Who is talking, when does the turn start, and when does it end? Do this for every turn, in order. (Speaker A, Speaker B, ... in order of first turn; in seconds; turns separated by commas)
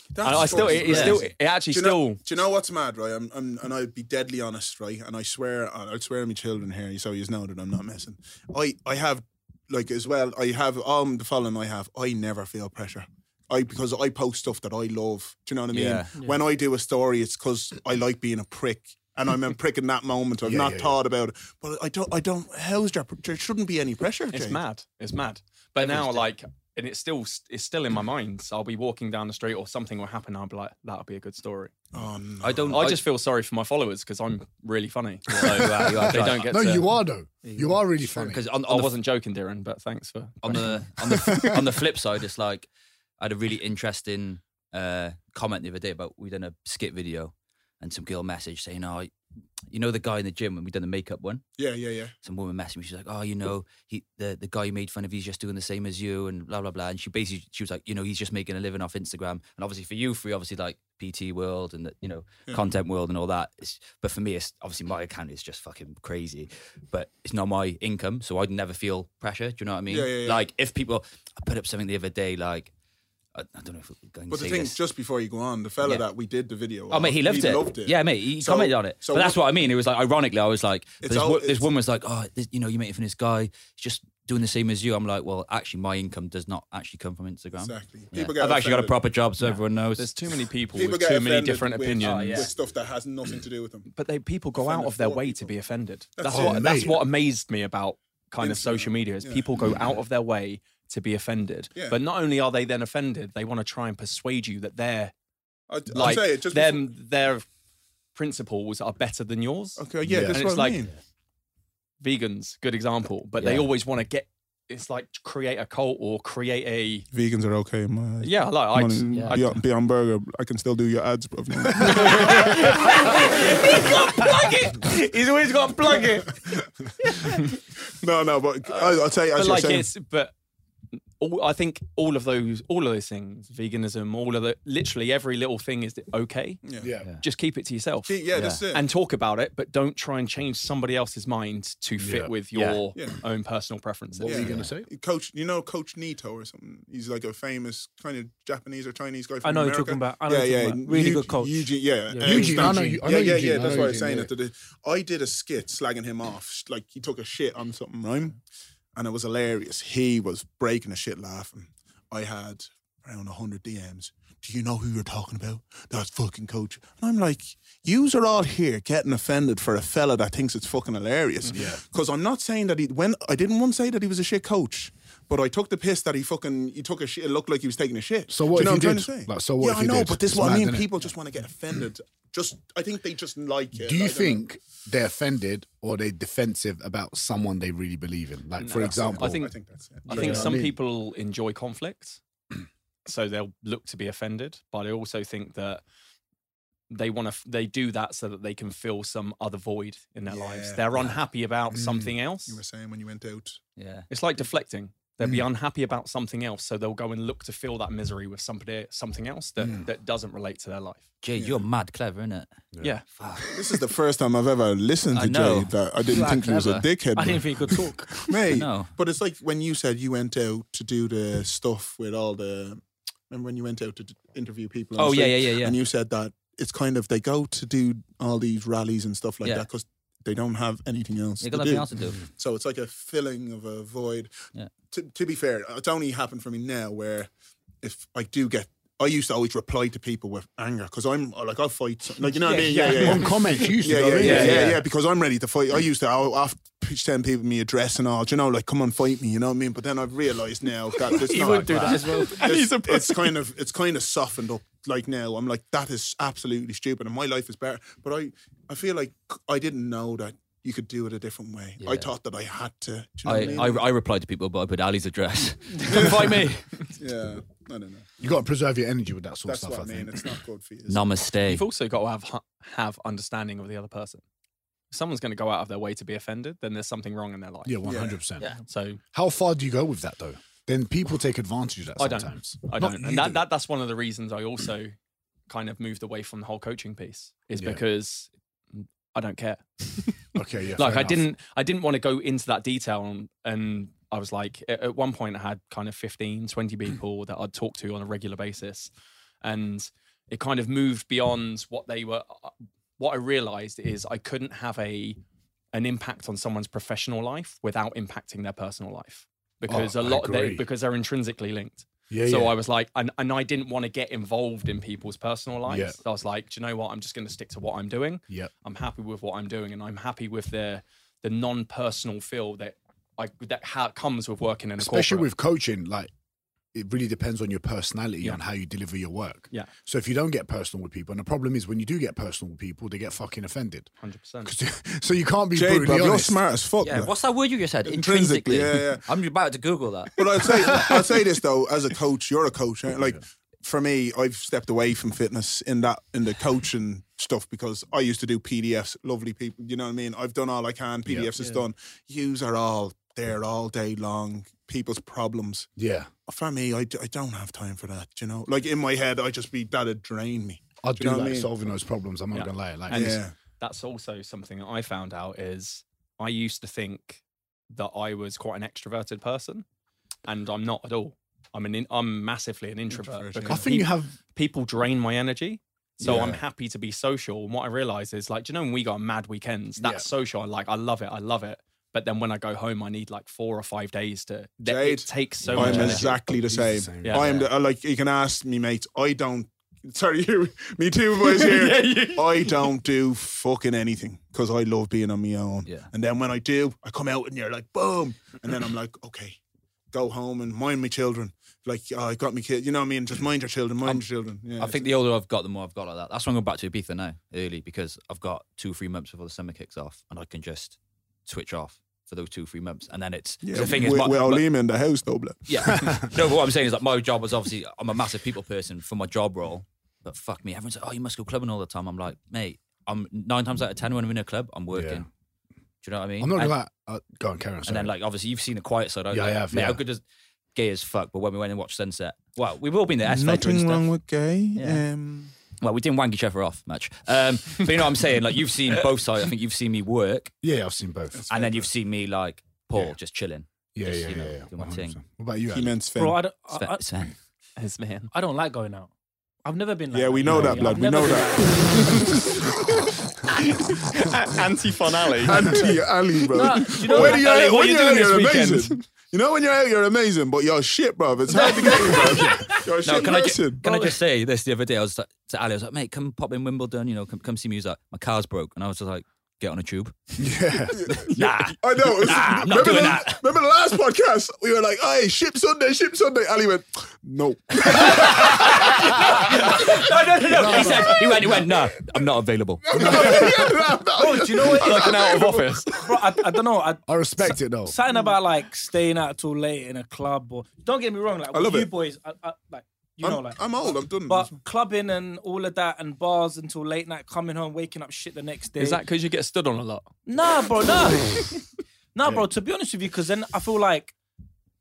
Speaker A: 0.1-24.6, Speaker B: 0.2-2.2, Speaker C: 0.3-1.1, Speaker D: 0.7-1.2, Speaker D: 15.7-16.2, Speaker C: 20.4-21.0, Speaker B: 24.3-31.7, Speaker D: 25.8-26.2, Speaker A: 31.9-32.8, Speaker D: 32.4-33.0, Speaker B: 32.7-36.9, Speaker D: 35.3-36.5, Speaker C: 36.2-38.4, Speaker E: 37.4-37.8, Speaker D: 38.1-38.9, Speaker B: 38.7-40.8, Speaker D: 40.4-42.7, Speaker D: 43.2-49.1, Speaker D: 49.7-51.4, Speaker A: 51.6-52.1, Speaker D: 52.2-72.7, Speaker A: 69.9-70.5, Speaker D: 73.3-74.8, Speaker A: 74.3-79.4, Speaker D: 76.9-90.1, Speaker A: 81.0-81.7, Speaker A: 87.6-89.0, Speaker B: 89.4-92.5, Speaker A: 90.7-93.9, Speaker D: 92.0-92.5, Speaker B: 93.9-105.1, Speaker A: 94.6-95.5, Speaker A: 96.2-96.9, Speaker C: 96.3-97.0, Speaker A: 98.4-99.5, Speaker A: 105.7-106.9, Speaker B: 105.9-107.5, Speaker B: 108.1-110.9, Speaker A: 109.8-110.9, Speaker C: 110.0-110.4, Speaker B: 112.0-117.1, Speaker D: 113.4-113.7, Speaker A: 117.1-122.7, Speaker B: 118.2-119.6, Speaker B: 121.8-122.5, Speaker E: 121.9-126.4, Speaker E: 127.0-127.5, Speaker A: 127.9-129.8, Speaker B: 128.7-130.3, Speaker B: 131.2-136.7, Speaker A: 136.7-136.9, Speaker C: 136.8-137.1, Speaker B: 137.2-138.2, Speaker A: 138.1-138.8, Speaker D: 138.3-138.6, Speaker B: 138.7-144.6, Speaker C: 142.0-142.3, Speaker D: 142.5-142.8, Speaker C: 144.2-144.9, Speaker A: 144.2-158.4, Speaker E: 149.4-153.1, Speaker C: 152.2-154.3, Speaker A: 158.9-184.4, Speaker C: 171.5-171.8, Speaker C: 178.3-180.9, Speaker C: 183.7-189.4, Speaker B: 188.6-192.2, Speaker A: 188.7-190.6, Speaker C: 190.1-190.8, Speaker B: 193.1-195.8, Speaker B: 196.9-202.6, Speaker A: 200.3-200.8, Speaker C: 201.7-202.1, Speaker A: 202.5-203.6, Speaker D: 203.8-204.1, Speaker B: 204.1-211.1, Speaker C: 205.2-205.4, Speaker C: 209.6-209.9, Speaker D: 211.2-212.5, Speaker A: 211.3-211.7, Speaker D: 213.2-213.6, Speaker A: 213.5-237.3, Speaker D: 215.1-216.8, Speaker E: 216.1-216.4, Speaker E: 217.1-218.3, Speaker D: 218.5-218.9, Speaker D: 225.0-225.8, Speaker D: 231.4-232.3, Speaker A: 237.8-263.9, Speaker E: 242.3-243.7, Speaker C: 242.9-244.8, Speaker D: 244.2-244.8, Speaker E: 244.2-244.6, Speaker B: 250.9-253.3, Speaker D: 251.3-252.3, Speaker E: 251.7-252.3, Speaker D: 261.8-262.1, Speaker D: 263.2-266.6, Speaker A: 265.9-268.1, Speaker C: 268.2-270.2, Speaker A: 269.5-271.1, Speaker D: 270.9-271.6, Speaker B: 271.5-274.2, Speaker B: 274.9-277.8, Speaker C: 277.6-278.5, Speaker A: 277.8-278.2, Speaker B: 278.6-279.0, Speaker C: 279.1-283.4, Speaker B: 282.0-284.9, Speaker B: 285.5-298.9, Speaker C: 290.3-291.2, Speaker B: 299.4-305.2, Speaker B: 305.7-325.3, Speaker C: 309.7-310.6, Speaker C: 312.1-312.6, Speaker C: 315.7-316.0, Speaker C: 324.8-326.1, Speaker C: 326.7-333.9, Speaker B: 334.0-334.5, Speaker C: 334.4-336.4, Speaker A: 335.5-337.1, Speaker D: 336.8-340.9, Speaker A: 337.8-339.1, Speaker A: 340.1-355.7, Speaker C: 351.1-351.3, Speaker C: 355.8-356.1, Speaker A: 356.3-361.5, Speaker C: 360.8-363.1, Speaker B: 362.3-369.6, Speaker A: 362.9-363.3, Speaker B: 370.2-386.2, Speaker A: 372.9-373.7, Speaker C: 373.5-374.1, Speaker C: 376.0-376.4, Speaker C: 379.8-380.1, Speaker A: 384.6-399.4, Speaker C: 385.5-387.2, Speaker D: 385.6-386.0, Speaker B: 387.0-387.4, Speaker B: 391.2-392.7, Speaker A: 399.9-404.9, Speaker D: 404.6-414.4, Speaker A: 413.4-416.0, Speaker D: 415.5-425.1, Speaker C: 424.7-425.0, Speaker D: 425.8-426.5, Speaker C: 426.2-427.9, Speaker D: 427.6-430.0, Speaker C: 429.1-429.8, Speaker D: 430.5-433.8, Speaker A: 433.0-435.3, Speaker D: 434.6-434.8, Speaker D: 435.5-440.3, Speaker C: 440.4-441.2, Speaker A: 441.1-441.7, Speaker D: 441.3-445.0, Speaker C: 443.7-445.8, Speaker A: 445.5-446.2, Speaker E: 446.0-446.9, Speaker D: 446.5-447.1, Speaker B: 447.6-448.1, Speaker E: 448.1-448.9, Speaker E: 449.4-452.2, Speaker A: 449.9-452.9, Speaker C: 450.2-450.7, Speaker B: 453.5-455.8, Speaker A: 455.2-463.6, Speaker E: 456.3-457.3, Speaker B: 456.3-458.8, Speaker D: 461.3-470.2, Speaker E: 461.4-462.3, Speaker C: 470.2-471.0, Speaker A: 470.7-479.0, Speaker D: 470.9-473.2, Speaker D: 477.6-483.3, Speaker E: 477.8-481.1, Speaker C: 480.3-481.0, Speaker A: 482.6-485.8, Speaker C: 482.7-483.8, Speaker E: 483.9-485.2, Speaker B: 484.4-485.9, Speaker E: 485.8-486.8, Speaker C: 486.9-487.7, Speaker E: 487.6-498.8, Speaker A: 491.3-491.7, Speaker A: 493.0-494.3, Speaker B: 498.6-499.9, Speaker E: 500.1-501.4, Speaker E: 501.9-503.9